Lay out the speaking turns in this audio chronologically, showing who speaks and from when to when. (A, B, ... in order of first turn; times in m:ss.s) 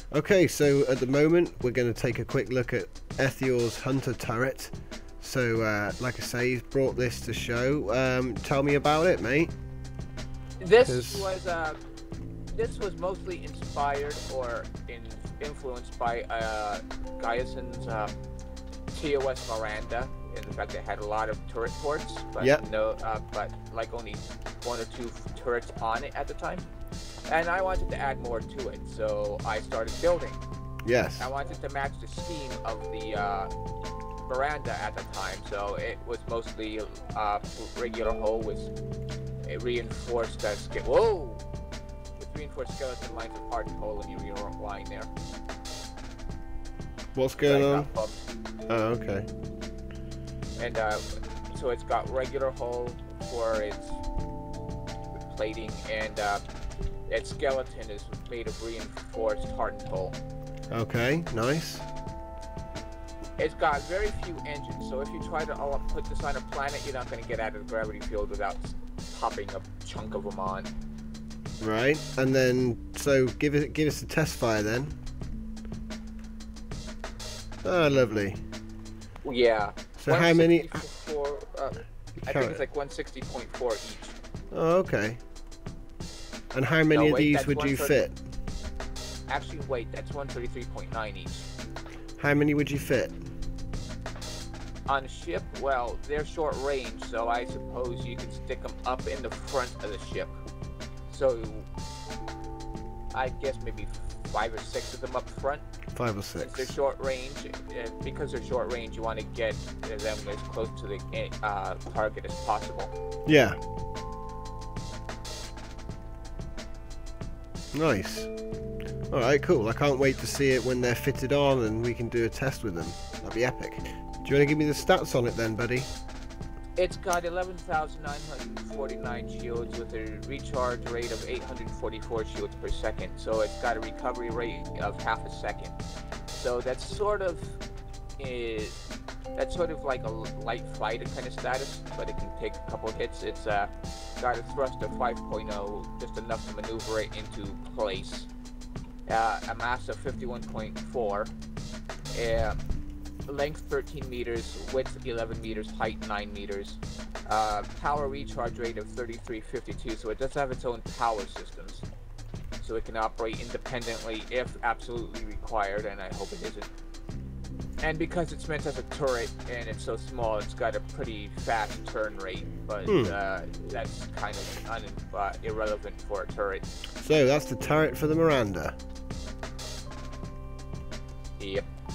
0:00.1-0:09.5 A
0:10.6-0:11.8 B
0:10.8-0:11.3 A
0:12.5-0:18.1 B
0:18.9-0:26.6 B
0:27.3-0:30.4 B
0:30.8-0:31.3 A
0:31.2-0:33.5 B
0:34.2-0:38.7 B
0:39.4-0:41.4 B
0:42.2-0:45.1 B
0:47.2-0:47.9 A
0:47.4-0:48.2 B
0:48.7-0:49.3 A
0:50.6-0:54.0 B
0:55.2-0:56.4 B
0:57.1-1:00.2 B
1:00.7-1:01.9 A
1:03.4-1:10.7 B
1:11.6-1:15.0 A
1:17.6-1:18.4 A
1:19.2-1:24.2 B
1:20.0-1:20.8 A
1:22.2-1:22.6 A
1:24.5-1:25.2 A
1:26.5-1:28.2 A
1:26.9-1:28.0 B
1:29.3-1:31.5 B
1:32.2-1:33.2 A
1:34.9-1:40.3 B
1:41.1-1:41.7 B
1:43.1-1:45.6 B
1:46.0-1:46.7 A
1:46.4-1:52.9 B
1:53.3-1:53.6 A
1:57.7-1:58.3 A
1:59.1-2:05.9 A
2:06.8-2:15.8 B
2:16.3-2:17.6 B
2:18.2-2:18.8 B
2:19.4-2:28.3 B
2:29.1-2:31.3 B
2:32.1-2:32.6 B
2:33.3-2:41.9 B
2:42.6-2:46.7 B
2:47.8-2:56.7 B
2:52.8-2:53.2 A
2:57.0-2:58.8 A
3:01.4-3:01.7 B